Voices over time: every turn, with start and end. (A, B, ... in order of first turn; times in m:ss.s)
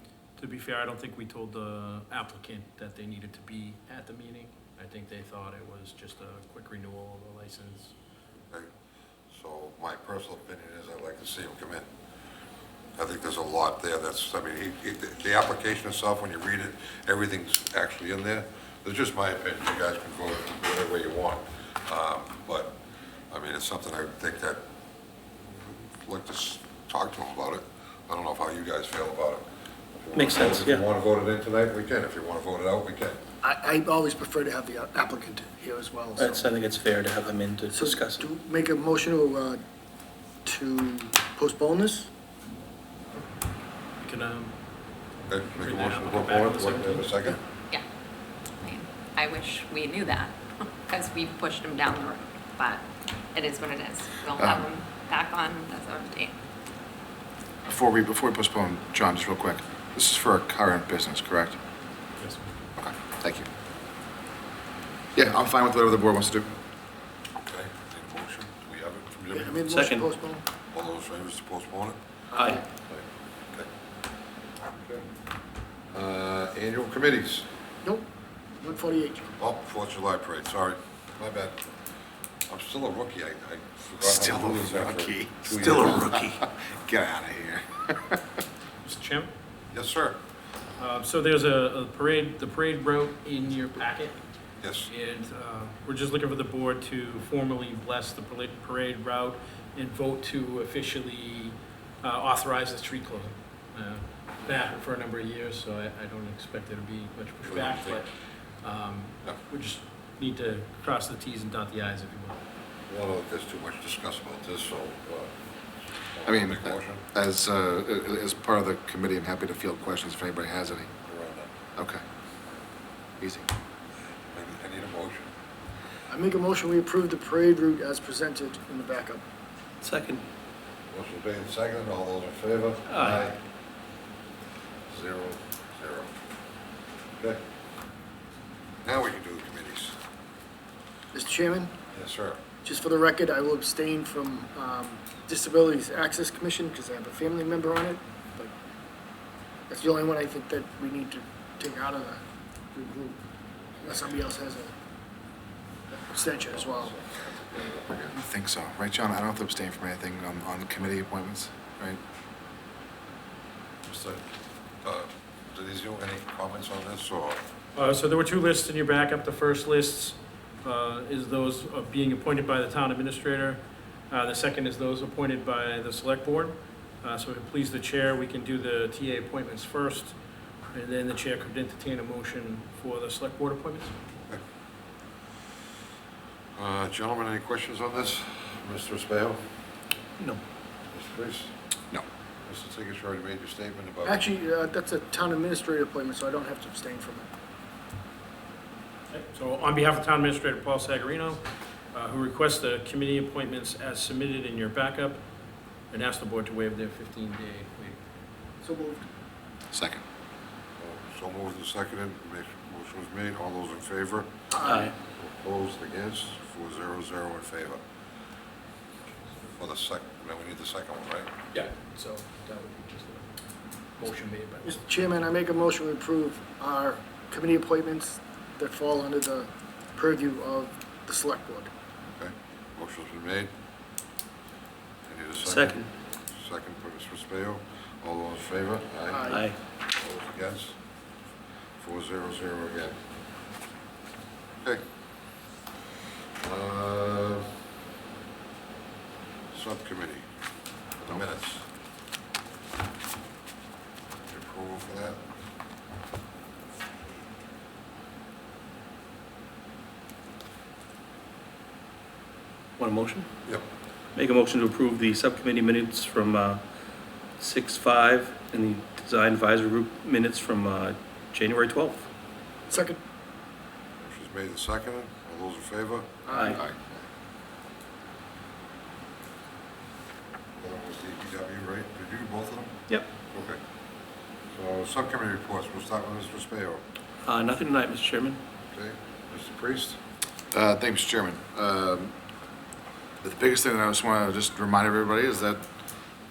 0:00.4-0:07.9 A
0:09.3-0:11.9 B
0:13.0-0:24.6 B
0:25.5-0:29.4 B
0:30.0-0:33.2 B
0:30.1-0:30.8 C
0:33.4-0:36.4 D
0:36.2-0:38.3 C
0:37.7-0:39.6 D
0:40.4-0:42.1 D
0:44.0-0:44.5 A
0:45.3-0:47.4 B
0:45.5-0:47.1 A
0:48.6-0:56.4 E
0:54.4-0:54.7 F
0:57.6-1:01.6 F
1:02.2-1:02.5 A
1:02.8-1:03.5 F
1:05.1-1:06.5 F
1:07.4-1:09.6 B
1:09.3-1:10.4 D
1:09.6-1:10.1 C
1:10.7-1:12.0 B
1:12.3-1:12.6 C
1:12.8-1:13.7 B
1:14.8-1:15.0 B
1:15.9-1:17.5 B
1:18.6-1:19.4 D
1:19.4-1:21.7 B
1:22.5-1:26.1 B
1:24.0-1:28.4 F
1:25.6-1:26.4 C
1:28.8-1:29.3 A
1:29.7-1:30.2 B
1:30.8-1:34.2 A
1:34.9-1:48.1 A
1:48.6-1:52.4 A
1:52.9-1:55.3 B
1:56.1-1:57.0 B
1:56.2-2:00.9 F
2:01.0-2:01.5 B
2:01.7-2:02.0 F
2:03.2-2:03.5 F
2:04.3-2:05.3 B
2:06.1-2:09.2 D
2:09.8-2:10.2 C
2:10.9-2:13.4 B
2:12.9-2:13.3 C
2:14.9-2:16.1 B
2:18.8-2:20.0 B
2:21.1-2:21.7 D
2:21.9-2:22.4 B
2:22.6-2:28.5 D
2:29.7-2:32.2 D
2:32.7-2:33.2 D
2:33.8-2:34.7 D
2:36.1-2:36.9 D
2:37.3-2:42.0 F
2:43.8-2:44.2 B
2:44.8-2:47.4 B
2:47.7-3:00.2 A
3:00.7-3:03.9 A
3:06.6-3:09.4 B
3:10.9-3:11.5 B
3:12.4-3:14.3 B
3:14.0-3:17.3 D
3:19.1-3:21.4 A
3:21.9-3:25.2 A
3:25.9-3:28.0 A
3:28.6-3:29.0 D
3:29.7-3:30.0 F
3:30.8-3:34.3 B
3:34.5-3:34.9 D
3:34.6-3:34.9 C
3:35.1-3:37.8 B
3:39.6-3:41.3 B
3:41.5-3:43.3 A
3:44.0-3:44.8 A
3:44.6-3:51.7 D
3:52.1-3:53.5 B
3:55.0-3:55.8 B
3:55.4-3:55.9 C
3:56.4-3:59.2 B
3:59.1-3:59.5 D
3:59.3-3:59.6 C
3:59.9-4:00.8 B
4:01.8-4:03.0 B
4:06.4-4:07.5 B
4:09.5-4:10.2 B
4:11.0-4:11.6 B
4:14.3-4:15.2 B
4:22.8-4:23.3 C
4:24.1-4:26.6 C
4:27.4-4:32.0 C
4:32.7-4:33.0 D
4:34.0-4:36.2 B
4:36.3-4:36.6 D
4:36.3-4:36.6 C
4:40.6-4:42.8 B
4:43.3-4:43.6 B
4:44.5-4:46.8 B
4:47.2-4:48.4 C
4:48.7-4:50.0 B
4:50.5-4:52.1 F
4:53.2-4:55.6 F